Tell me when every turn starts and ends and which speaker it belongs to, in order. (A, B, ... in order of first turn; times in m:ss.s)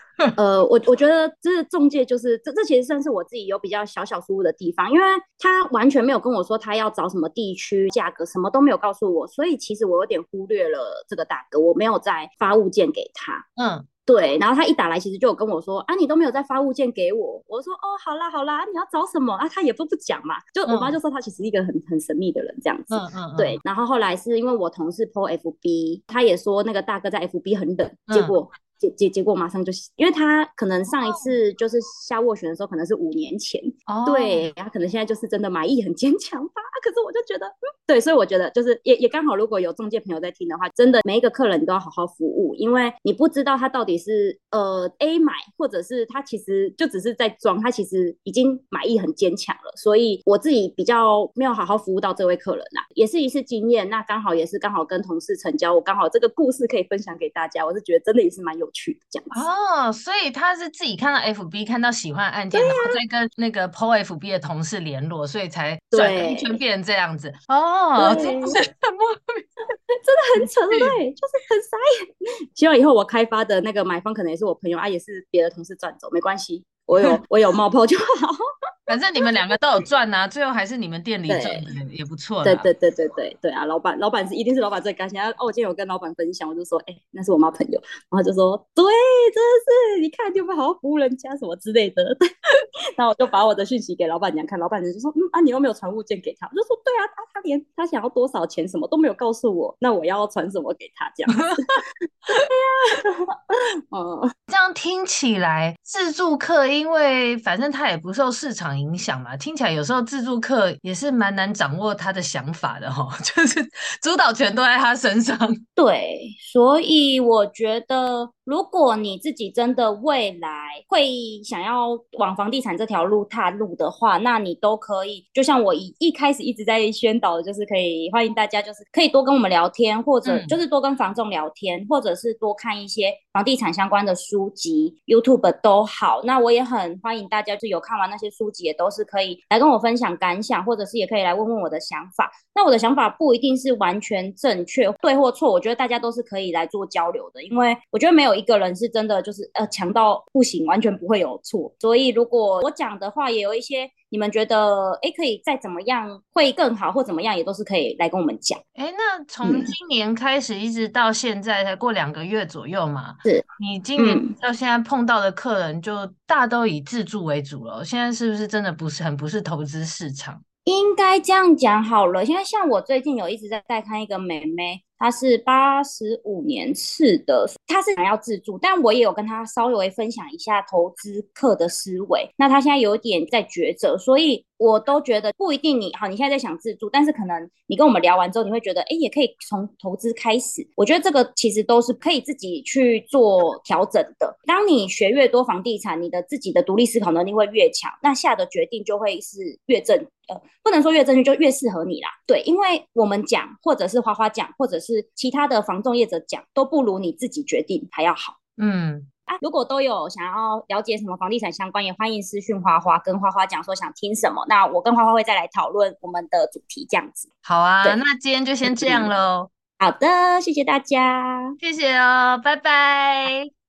0:00.4-0:13.4 A
0:13.6-0:13.9 B
0:14.1-0:59.4 A
0:20.7-0:21.0 B
0:22.9-0:23.6 B
0:28.1-0:28.4 B
0:33.9-0:34.5 B
0:59.3-1:09.5 B
1:02.5-1:03.0 A
1:05.9-1:06.6 A
1:08.0-1:08.6 A
1:10.0-1:11.9 A
1:10.4-1:11.0 B
1:12.6-1:18.4 A
1:18.9-1:22.7 B
1:21.3-1:21.7 A
1:22.4-1:32.2 A
1:33.0-1:44.3 A
1:44.5-1:55.6 B
1:55.8-2:38.6 A
2:10.2-2:10.6 B
2:38.8-2:50.4 B
2:39.4-2:39.7 A
2:44.0-2:44.3 A
2:50.6-3:28.4 A
3:28.6-3:29.1 B
3:29.3-3:37.3 A
3:37.4-3:39.5 B
3:38.6-3:39.1 A
3:39.8-3:41.6 A
3:41.6-3:43.5 B